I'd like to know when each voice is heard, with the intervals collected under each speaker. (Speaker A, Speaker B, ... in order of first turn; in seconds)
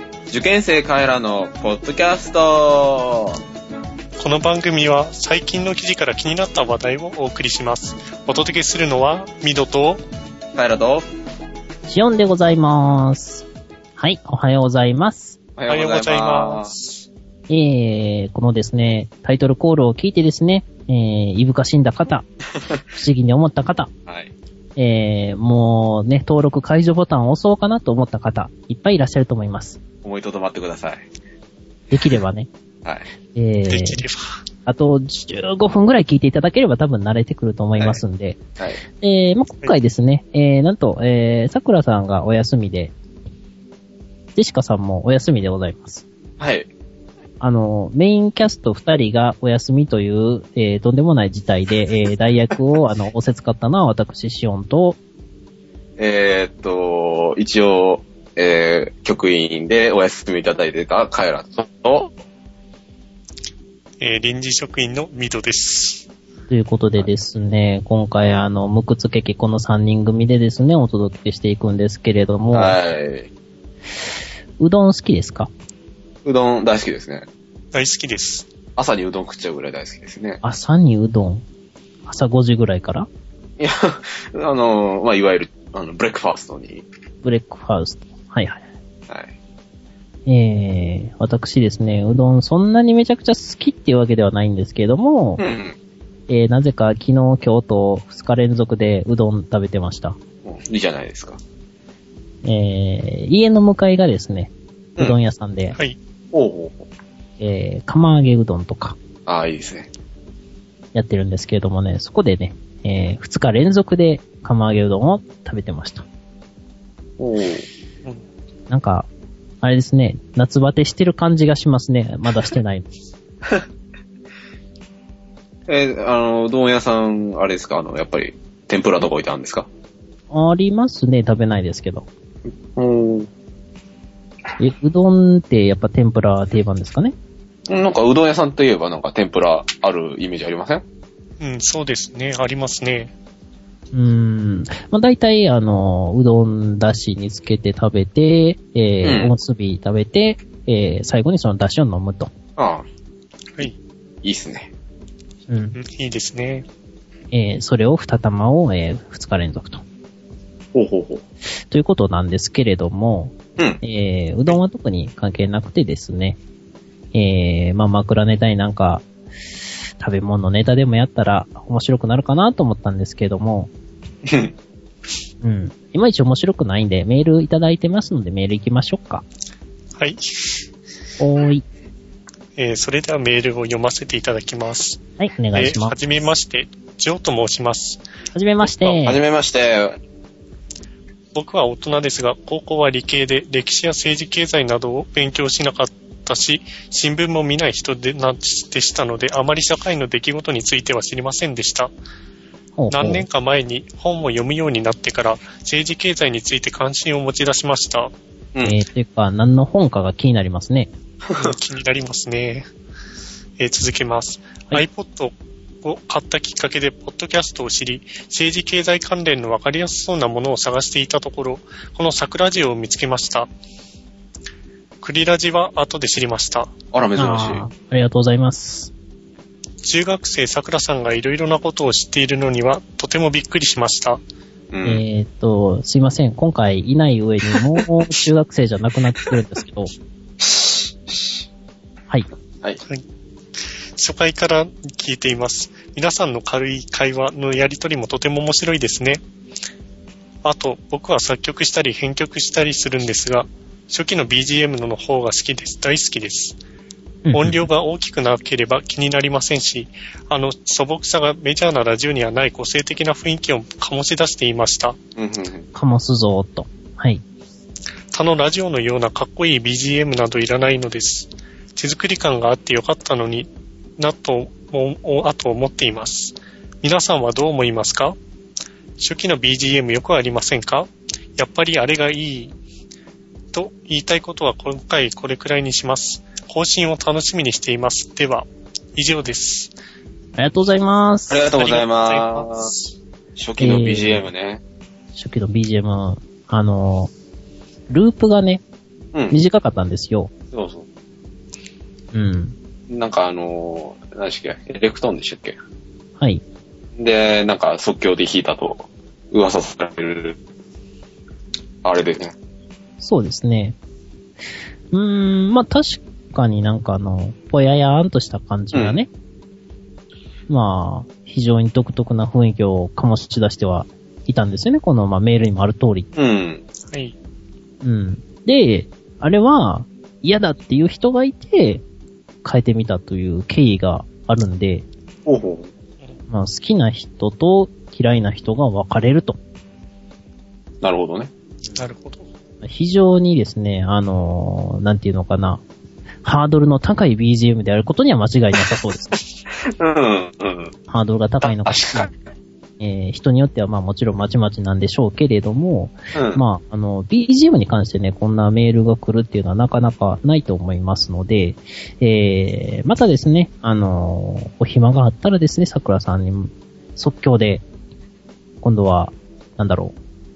Speaker A: 0.3-3.4, 10.5-11.1, 15.6-16.7, 24.1-24.3, 30.0-31.0, 46.4-46.7, 56.0-62.1, 72.5-73.3, 76.2-77.3, 78.8-80.4, 83.6-86.8, 95.4-95.8, 100.4-101.4, 106.3-106.9, 109.3-109.9, 117.2-117.7, 125.7-129.7, 132.7-133.3, 137.7-140.8, 149.0-149.3, 152.6-152.8, 154.2-154.7, 160.7-161.2, 174.2-174.5, 188.6-190.0, 211.3-211.6, 226.9-227.7, 234.7-235.0, 240.4-241.4, 265.2-265.7, 291.3-292.7, 293.4-294.6, 300.5-300.9, 302.9-305.6, 307.0-310.4, 311.8-312.4, 318.7-319.0, 326.2-326.6, 335.3-335.7, 340.8-341.3, 349.6-350.7, 351.4-352.1, 356.1-356.4
Speaker B: 4.2-10.0, 15.7-17.1, 33.7-34.4, 64.0-66.1, 77.7-78.5, 141.4-143.1, 155.7-156.7, 180.0-180.6, 182.6-185.0, 185.5-188.0, 191.3-201.9, 202.9-208.1, 211.4-212.7, 213.6-223.5, 225.0-226.7, 229.8-234.2, 244.0-249.2, 250.4-256.6, 257.3-265.0, 268.1-278.2, 279.0-282.6, 283.5-289.7, 291.5-292.9, 326.9-327.1, 341.8-342.3
Speaker C: 11.9-13.4, 14.0-15.4, 17.5-22.3, 22.9-23.9, 24.8-29.8, 31.9-32.5, 33.4-34.0, 34.7-38.4, 39.0-42.9, 44.4-46.0, 47.4-55.0, 66.5-72.8, 74.6-75.5, 80.4-81.4, 82.1-83.1, 87.2-88.6, 90.3-95.4, 96.3-100.2, 102.4-105.8, 107.4-109.0, 110.9-116.0, 118.7-119.1, 119.6-122.9, 130.3-132.1, 134.6-137.1, 143.9-152.3, 155.5-155.8, 157.3-159.8, 161.7-166.4, 167.1-169.1, 170.0-173.7, 175.4-179.2, 181.2-181.6, 185.2-185.9, 188.3-189.2, 202.8-203.3, 208.6-210.9, 227.2-228.9, 234.8-239.9, 257.2-257.7, 265.7-267.2, 290.4-291.4, 293.6-294.3, 295.1-297.1, 297.9-298.6, 299.3-300.3, 302.1-302.6, 313.0-313.8, 314.9-319.1, 320.5-326.1, 327.8-331.8, 332.4-334.9, 336.3-339.4, 342.6-345.6, 346.2-349.1, 350.9-352.1, 352.8-367.6, 368.6-369.9